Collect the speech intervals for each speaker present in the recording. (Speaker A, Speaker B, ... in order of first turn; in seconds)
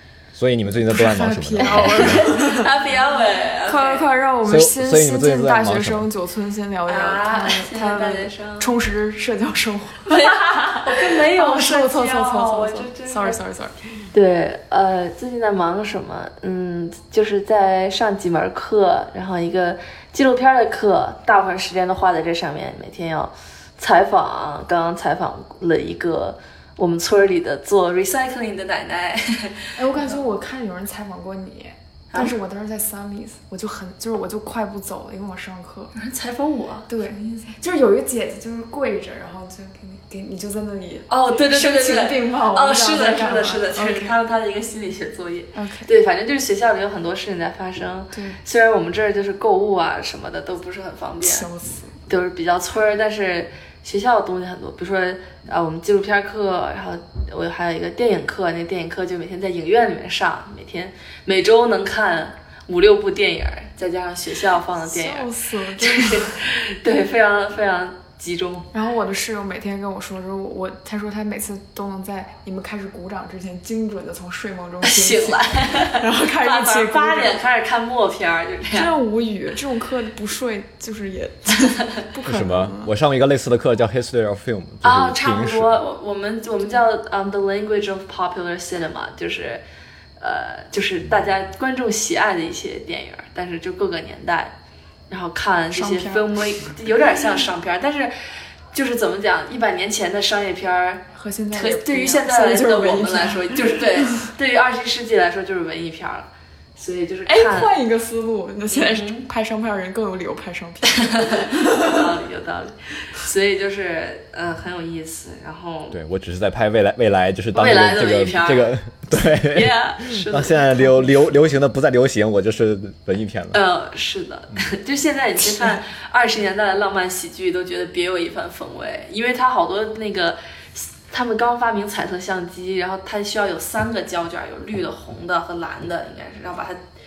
Speaker A: 0.3-2.3, 4.4-6.0, 82.2-85.8, 115.9-123.6
Speaker B: 0.9-2.7, 3.6-13.8, 29.8-35.9, 36.9-44.2, 45.5-45.9, 48.1-48.4, 51.2-51.9, 64.8-66.3, 68.7-77.4, 78.7-82.9, 95.7-96.7, 101.1-104.1, 107.3-112.0, 125.5-125.8
Speaker C: 1.6-4.0, 6.9-8.7, 10.1-13.4, 14.1-30.1, 35.9-37.5, 41.1-51.5, 52.1-65.3, 65.8-68.7, 74.8-78.9, 84.8-89.6, 90.2-94.5, 95.1-98.1, 98.7-107.7, 108.7-109.2, 110.9-116.0, 117.5-121.1, 123.5-136.8